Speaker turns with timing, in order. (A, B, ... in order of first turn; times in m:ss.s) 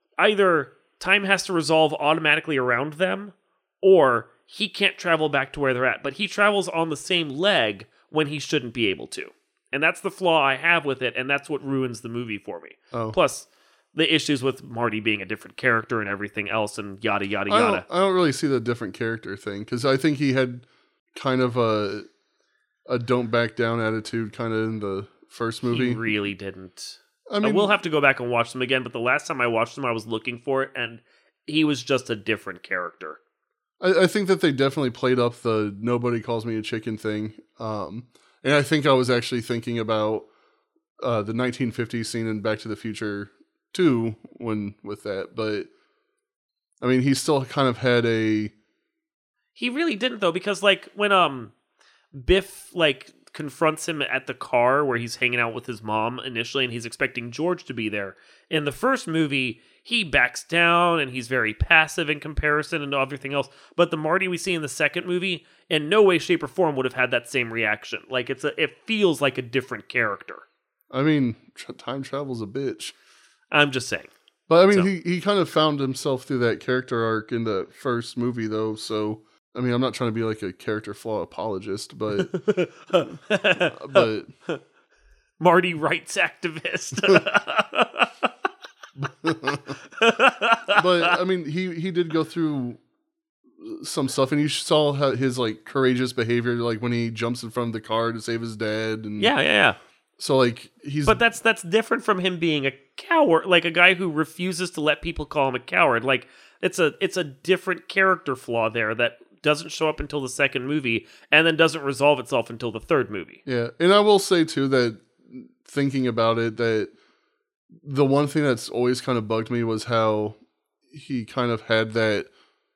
0:00.2-0:17.8 A
0:12.9-0:13.2 B
0:17.5-0:22.1 B
0:22.9-0:26.0 B
0:25.7-0:33.2 A
0:27.3-0:27.8 B
0:33.8-0:40.3 B
0:41.0-0:45.7 B
0:46.8-0:48.5 B
0:49.6-0:51.5 A
0:52.1-1:10.4 A
1:10.9-1:12.9 B
1:13.5-1:14.1 A
1:14.5-1:22.4 B
1:22.1-1:24.6 A
1:23.1-1:24.3 B
1:25.4-1:28.3 A
1:29.0-1:29.8 B
1:29.5-1:31.2 A
1:30.7-1:32.8 B
1:33.6-1:39.3 B
1:39.2-1:39.8 A
1:40.2-1:41.2 B
1:41.0-1:53.4 A
1:53.5-1:56.9 B
1:57.8-2:00.4 B
2:00.9-2:02.3 B